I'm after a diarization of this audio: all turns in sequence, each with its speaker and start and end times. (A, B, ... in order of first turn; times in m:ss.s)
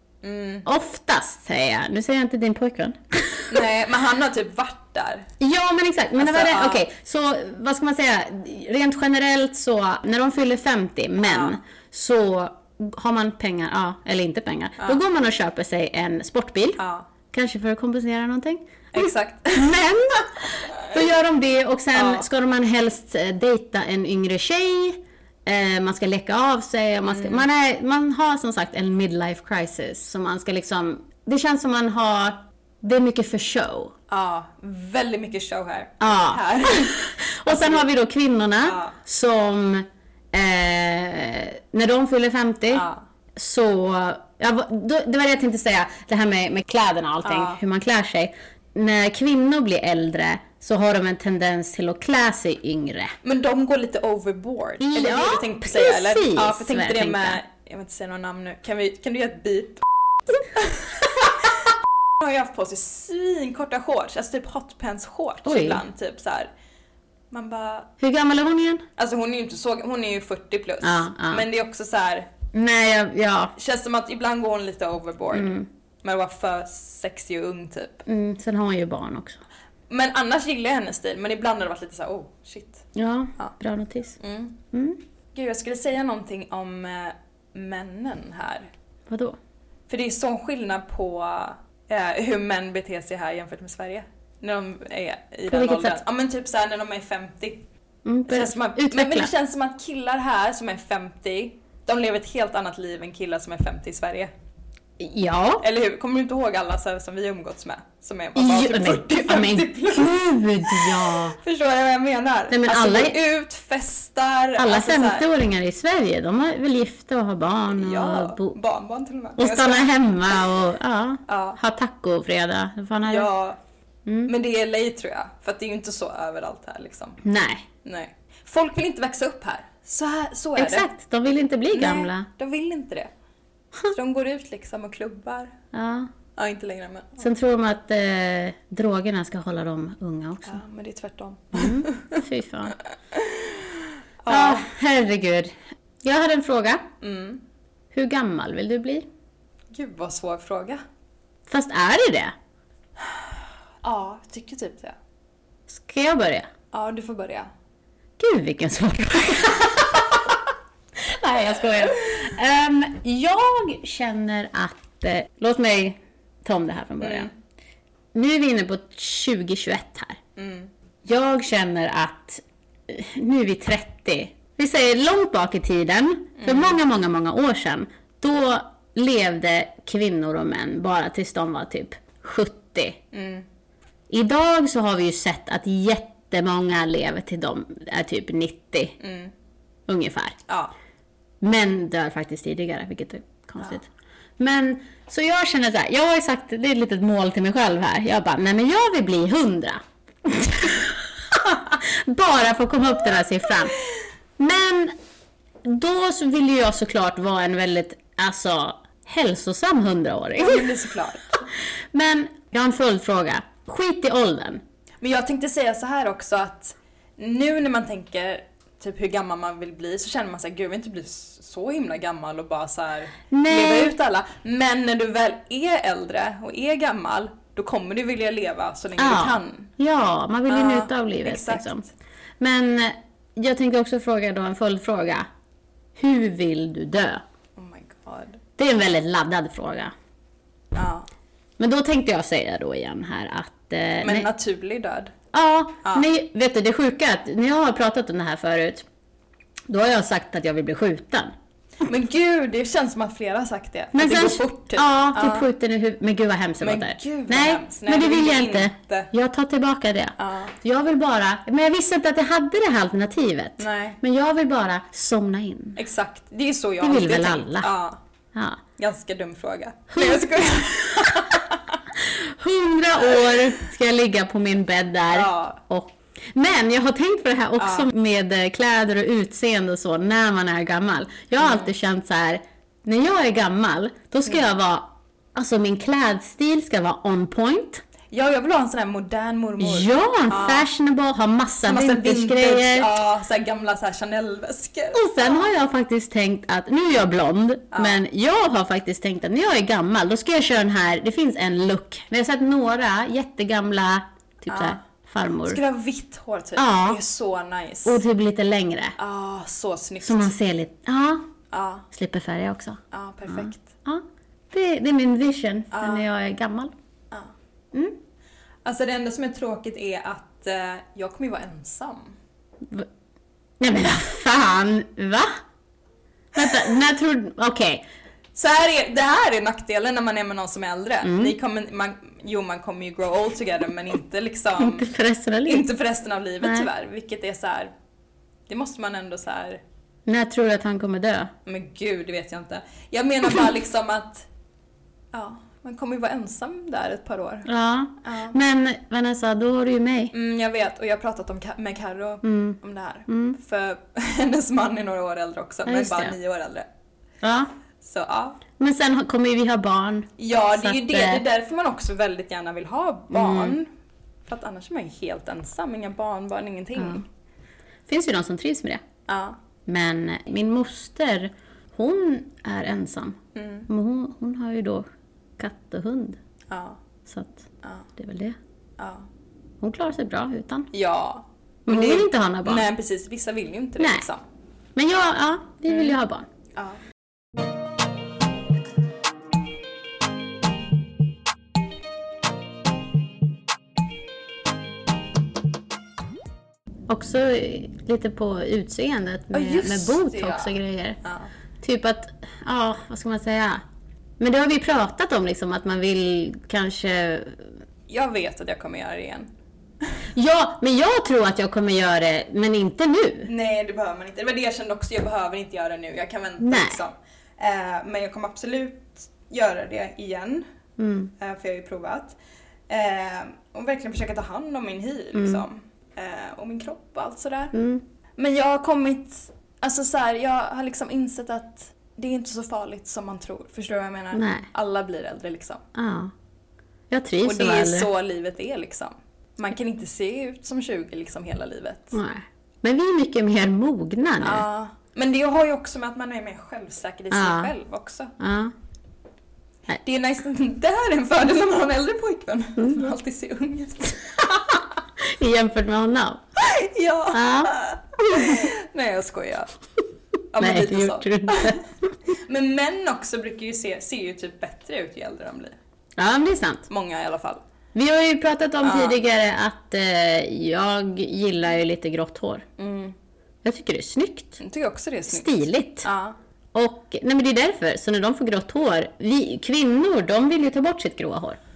0:00.2-0:00.7 A
0:00.7-0:03.6 B
0:03.5-0:05.3 A
0:05.4-0:16.8 B
0:06.2-0:06.8 A
0:11.2-0:11.6 A
0:16.8-0:17.1 A
0:17.3-0:33.9 B
0:18.9-0:19.7 A
0:20.7-0:21.0 A
0:21.9-0:22.3 A
0:27.1-0:27.4 A
0:34.1-0:37.9 A
0:36.0-0:53.2 B
0:38.6-0:39.0 A
0:42.7-0:43.0 A
0:47.2-0:47.6 A
0:53.2-1:01.7 A
0:54.8-0:57.4 B
1:02.2-1:06.5 A
1:05.4-1:05.8 B
1:07.3-1:07.9 A
1:08.0-1:08.8 B
1:09.0-1:12.3 A
1:10.8-1:11.5 B
1:12.5-1:13.5 B
1:13.6-1:18.0 A
1:15.3-1:15.7 B
1:18.1-1:19.4 B
1:19.9-1:22.9 A
1:23.0-1:24.2 B
1:24.2-1:24.6 A
1:24.7-1:25.0 B
1:25.3-1:28.7 A
1:29.1-1:29.4 B
1:29.9-1:37.6 A
1:35.5-1:36.0 B
1:38.0-1:39.3 B
1:38.3-1:44.3 A
1:45.0-1:45.6 B
1:45.6-1:55.3 A
1:48.4-1:51.4 B
1:52.5-1:53.2 B
1:54.6-1:58.6 B
1:57.7-2:00.4 A
1:59.4-2:03.3 B
2:01.3-2:01.6 A
2:03.1-2:03.6 A
2:04.1-2:04.3 B
2:04.3-2:07.2 A
2:07.2-2:07.6 B
2:07.8-2:10.9 A
2:10.6-2:12.3 B
2:11.7-2:13.1 A
2:13.9-2:15.5 A
2:15.7-2:16.1 B
2:16.4-2:17.3 A
2:17.2-2:20.6 B
2:20.4-2:22.2 A
2:21.5-2:22.8 B
2:23.1-2:24.7 A
2:24.3-2:26.8 B
2:27.0-2:27.4 A
2:27.9-2:29.1 B
2:29.7-2:30.8 A
2:31.5-2:32.4 B
2:33.8-2:35.0 A
2:35.7-2:36.5 B
2:36.7-2:37.5 A
2:38.2-2:40.2 B
2:41.0-2:47.3 B
2:47.0-2:47.3 A
2:48.1-2:50.2 B
2:50.4-2:50.7 A
2:51.0-3:03.0 B
2:56.4-2:56.8 A
3:03.1-3:03.5 A
3:04.1-3:09.0 B
3:09.0-3:09.3 A
3:09.9-3:10.4 B
3:10.5-3:10.7 A
3:11.4-3:23.8 B
3:24.4-3:24.9 B
3:25.6-3:30.8 B
3:30.4-3:31.5 A
3:31.9-3:34.6 B
3:35.0-3:49.7 A
3:43.3-3:44.0 B
3:49.0-3:51.8 B
3:50.5-3:51.9 A
3:52.4-3:55.3 B
3:56.0-3:57.2 B
3:57.6-3:58.4 A
3:58.6-3:59.9 B
4:00.7-4:01.1 A
4:01.6-4:04.3 B
4:04.0-4:05.1 A
4:05.3-4:08.9 B
4:09.7-4:11.3 B
4:11.8-4:15.5 A
4:13.9-4:25.8 B
4:16.6-4:19.1 A
4:20.2-4:20.5 A
4:23.6-4:24.0 A
4:25.8-4:28.0 A
4:26.8-4:27.7 B
4:28.3-4:28.6 B
4:28.8-4:31.8 A
4:29.9-4:30.5 B
4:32.0-4:47.8 B
4:35.1-4:35.6 A
4:37.6-4:37.9 A
4:41.4-4:41.7 A
4:48.1-4:50.7 A
4:49.6-4:52.9 B
4:51.7-4:55.5 A
4:54.9-5:05.6 B
4:57.7-4:58.0 A
5:04.5-5:04.8 A
5:05.4-5:08.0 A
5:06.6-5:07.0 B
5:07.8-5:09.0 B
5:09.0-5:10.3 A
5:10.0-5:11.2 B
5:11.5-5:11.9 A
5:11.9-5:16.7 B
5:12.9-5:13.7 A
5:15.7-5:16.1 A
5:18.6-5:22.2 A
5:23.6-5:25.4 B
5:26.4-5:27.8 B
5:28.4-5:34.9 A
5:31.0-5:31.4 B
5:34.6-5:35.7 B
5:35.5-5:37.7 A
5:36.4-5:36.7 B
5:38.5-5:39.6 A
5:40.1-5:41.3 B
5:41.5-5:44.3 A
5:45.1-5:47.5 A
5:47.5-5:50.1 B
5:48.0-5:48.4 A
5:50.1-5:56.7 A
5:52.2-5:53.4 B
5:55.7-5:56.2 B
5:57.2-5:57.5 B
5:57.8-5:58.4 A
5:58.6-6:01.2 B
6:00.2-6:03.7 A
6:03.1-6:03.6 B
6:04.3-6:07.0 A
6:06.8-6:07.0 B
6:07.9-6:08.8 B
6:09.1-6:09.4 A
6:09.7-6:14.9 B
6:13.4-6:13.7 A
6:15.4-6:16.2 B
6:16.5-6:16.8 A
6:17.1-6:18.4 B
6:18.8-6:19.1 A
6:19.6-6:20.7 B
6:20.7-6:24.2 A
6:21.7-6:22.7 B
6:23.8-6:24.1 B
6:24.8-6:26.3 B
6:36.9-6:41.0 B
6:39.3-6:41.3 A
6:41.6-6:43.6 B
6:44.2-6:47.5 B
6:47.9-6:49.3 A
6:50.2-6:53.3 B
6:53.3-7:00.4 A
6:56.4-6:56.8 B
7:00.8-7:01.1 B
7:01.2-7:02.2 A
7:02.7-7:07.6 A
7:05.2-7:05.4 B
7:07.5-7:07.8 B
7:08.2-7:15.6 A
7:14.1-7:14.5 B
7:15.8-7:16.1 B
7:16.9-7:17.9 B
7:17.2-7:22.0 A
7:21.9-7:24.5 B
7:24.2-7:28.2 A
7:27.1-7:27.5 B
7:28.2-7:28.5 B
7:29.8-7:34.6 A
7:32.6-7:32.9 B
7:35.0-7:36.2 B
7:36.4-7:39.5 A
7:37.1-7:38.4 B
7:40.3-7:41.6 A
7:40.4-7:41.6 B
7:42.2-7:45.6 A
7:46.0-7:46.7 B
7:46.7-7:47.4 A
7:47.7-7:52.4 B
7:48.6-7:49.0 A
7:52.6-7:53.0 A
7:53.4-7:54.4 B
7:54.4-7:56.2 A
7:55.1-7:55.9 B
7:56.5-8:01.4 B